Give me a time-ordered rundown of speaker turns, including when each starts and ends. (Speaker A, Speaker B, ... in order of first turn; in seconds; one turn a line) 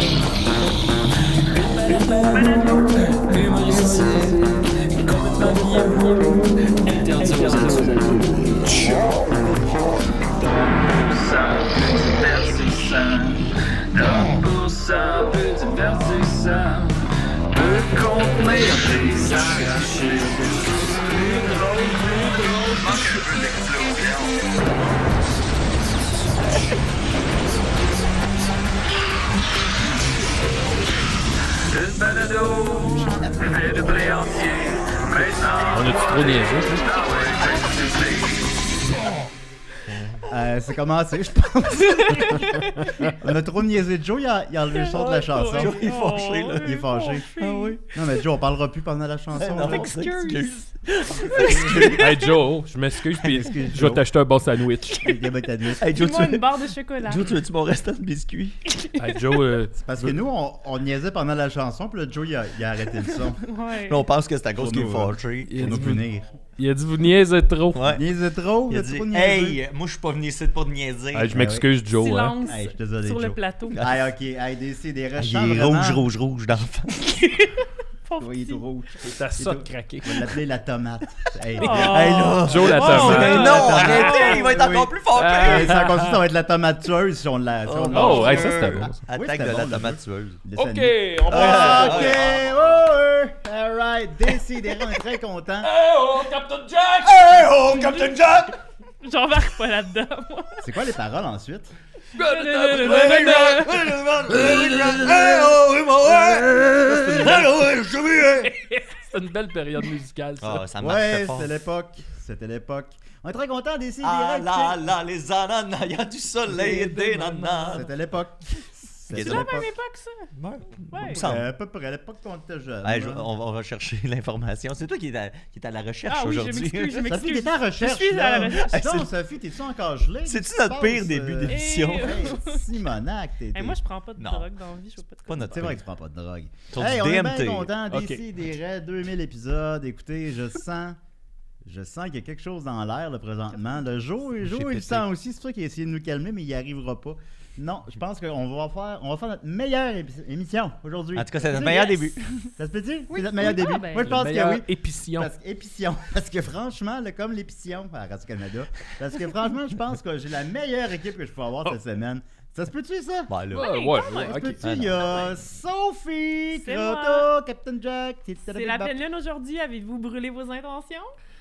Speaker A: 1.3-24.7
Speaker B: 2.4-2.9
Speaker A: 31.6-38.6
Speaker C: 33.1-34.0
Speaker D: 35.7-37.0
Speaker D: 39.9-40.2
Speaker C: 40.3-45.8
Speaker B: 41.8-43.1
Speaker B: 44.7-47.8
Speaker E: 45.5-47.8
Speaker C: 46.5-47.3
Speaker C: 47.9-49.9
Speaker E: 49.4-52.1
Speaker B: 49.5-50.6
Speaker B: 51.3-51.9
Speaker D: 51.4-55.1
Speaker C: 53.2-54.0
Speaker C: 55.0-55.9
Speaker E: 55.8-56.5
Speaker B: 55.8-57.4
Speaker E: 57.0-58.6
Speaker B: 58.7-59.1
Speaker D: 59.0-59.8
Speaker C: 59.7-63.4
Speaker B: 63.4-64.0
Speaker E: 63.9-65.8
Speaker C: 64.6-66.3
Speaker D: 65.5-66.1
Speaker D: 66.6-67.9
Speaker E: 67.7-68.0
Speaker C: 67.9-69.6
Speaker E: 68.7-71.4
Speaker D: 71.1-72.4
Speaker C: 71.3-71.7
Speaker B: 71.9-73.8
Speaker C: 72.5-76.0
Speaker E: 73.8-74.0
Speaker E: 75.2-77.0
Speaker B: 77.0-78.6
Speaker C: 78.2-95.7
Speaker D: 79.0-80.3
Speaker B: 81.6-84.5
Speaker D: 81.6-84.5
Speaker E: 81.7-85.9
Speaker D: 85.1-86.2
Speaker E: 87.7-90.4
Speaker D: 87.9-89.0
Speaker D: 90.6-92.4
Speaker E: 91.3-92.7
Speaker A: 96.0-96.8
Speaker E: 97.0-98.6
Speaker B: 97.7-98.1
Speaker B: 99.0-100.7
Speaker C: 100.6-101.7
Speaker D: 102.1-105.5
Speaker B: 102.2-103.8
Speaker E: 102.7-108.5
Speaker D: 106.3-107.8
Speaker D: 108.3-110.7
Speaker E: 110.4-111.5
Speaker C: 110.8-114.8
Speaker E: 114.0-117.9
Speaker D: 116.5-117.8
Speaker C: 117.7-119.7
Speaker E: 119.1-119.6
Speaker B: 119.2-120.3
Speaker E: 120.3-121.5
Speaker B: 120.9-121.2
Speaker C: 121.1-123.3
Speaker E: 122.8-127.1
Speaker B: 126.1-128.9
Speaker C: 127.1-133.8
Speaker E: 128.5-129.1
Speaker E: 130.3-132.3
Speaker B: 131.5-132.8
Speaker B: 133.5-135.6
Speaker E: 134.2-134.5
Speaker E: 135.3-135.8
Speaker C: 135.5-141.0
Speaker E: 136.7-137.7
Speaker D: 137.9-138.2
Speaker C: 141.6-163.3
Speaker E: 144.4-145.0
Speaker E: 151.2-152.2
Speaker B: 153.1-154.2
Speaker D: 154.0-155.3
Speaker E: 163.3-163.7
Speaker D: 163.5-164.9
Speaker B: 163.6-164.4
Speaker C: 164.2-169.0
Speaker E: 164.6-165.0
Speaker B: 165.0-165.3
Speaker B: 166.5-167.3
Speaker B: 168.5-171.1